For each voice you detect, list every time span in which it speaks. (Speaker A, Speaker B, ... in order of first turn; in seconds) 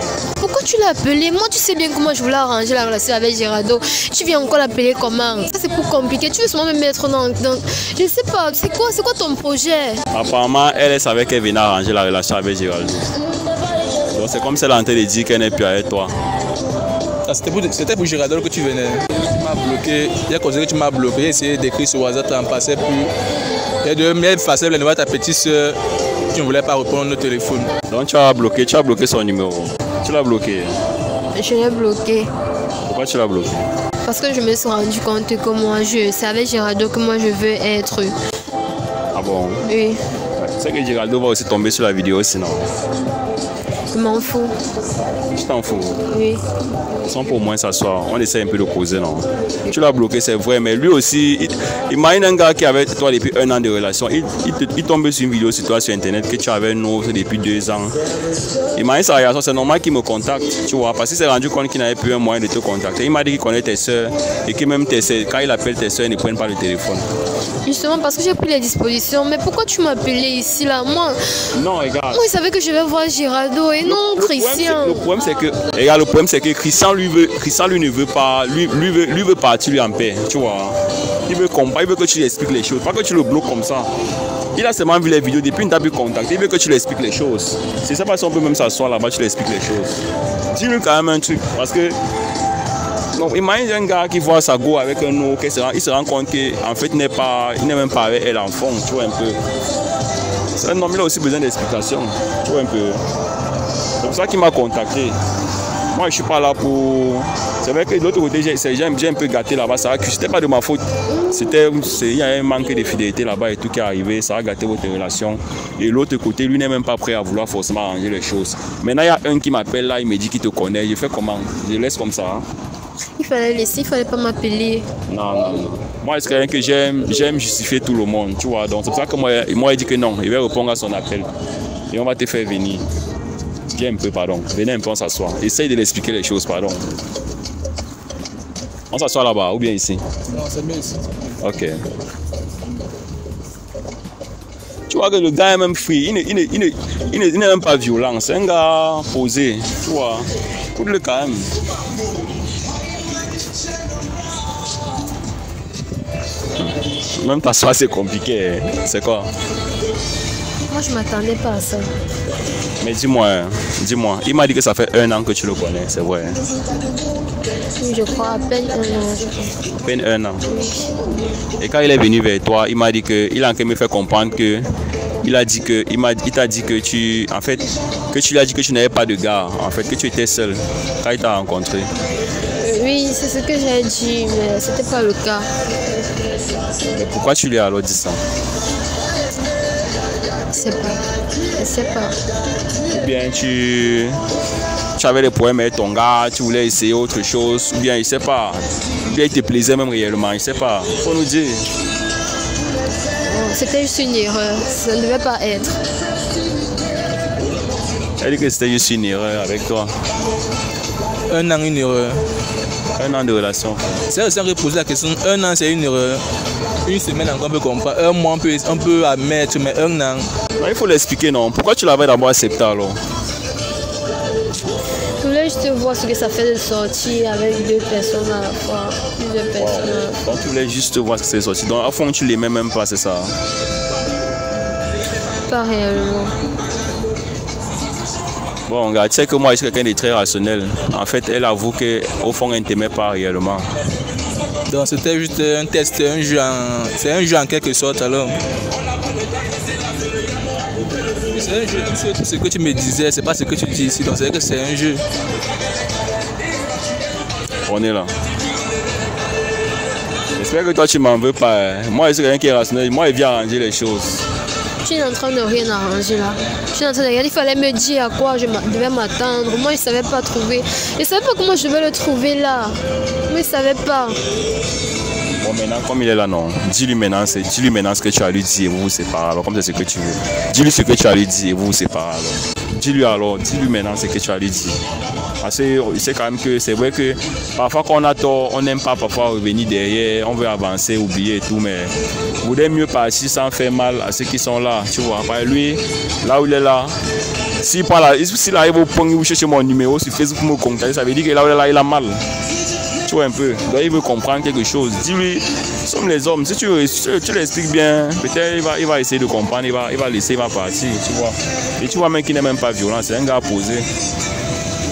Speaker A: 0.4-10.0, 31.3-32.3, 34.0-38.1, 39.6-40.0, 43.9-44.5, 46.1-46.4, 67.6-71.2, 72.1-75.0, 123.2-124.9, 160.7-161.9, 167.8-169.4, 182.6-185.5, 190.5-191.0, 191.6-192.1, 203.2-205.7, 225.2-230.2, 235.5-236.3, 264.8-274.2
Speaker B: 10.1-13.1, 14.1-16.1, 27.9-30.7, 32.8-33.6, 39.1-39.6, 40.4-42.6, 45.3-46.0, 47.1-58.0, 58.7-67.0, 71.5-72.2, 73.8-83.9, 84.5-90.0, 90.5-92.0, 93.1-99.4, 100.6-103.0, 104.0-105.2, 105.9-122.4, 125.1-131.3, 131.9-132.8, 133.7-136.8, 138.9-140.0, 141.4-141.8, 144.9-151.5, 156.6-159.3, 162.8-166.4, 169.7-170.4, 171.6-174.7, 175.2-181.9, 186.9-188.2, 192.9-194.2, 194.9-201.7, 208.2-209.9, 212.9-214.0, 220.6-223.0, 229.6-233.3, 238.7-243.7, 257.6-258.1, 260.4-264.2, 275.4-284.8, 285.4-297.0, 297.6-302.2, 303.0-313.9
Speaker C: 17.2-23.1, 23.8-25.8, 26.3-27.7, 140.3-141.3, 211.3-212.2, 214.1-216.2, 216.8-220.3, 244.7-248.4, 251.2-255.0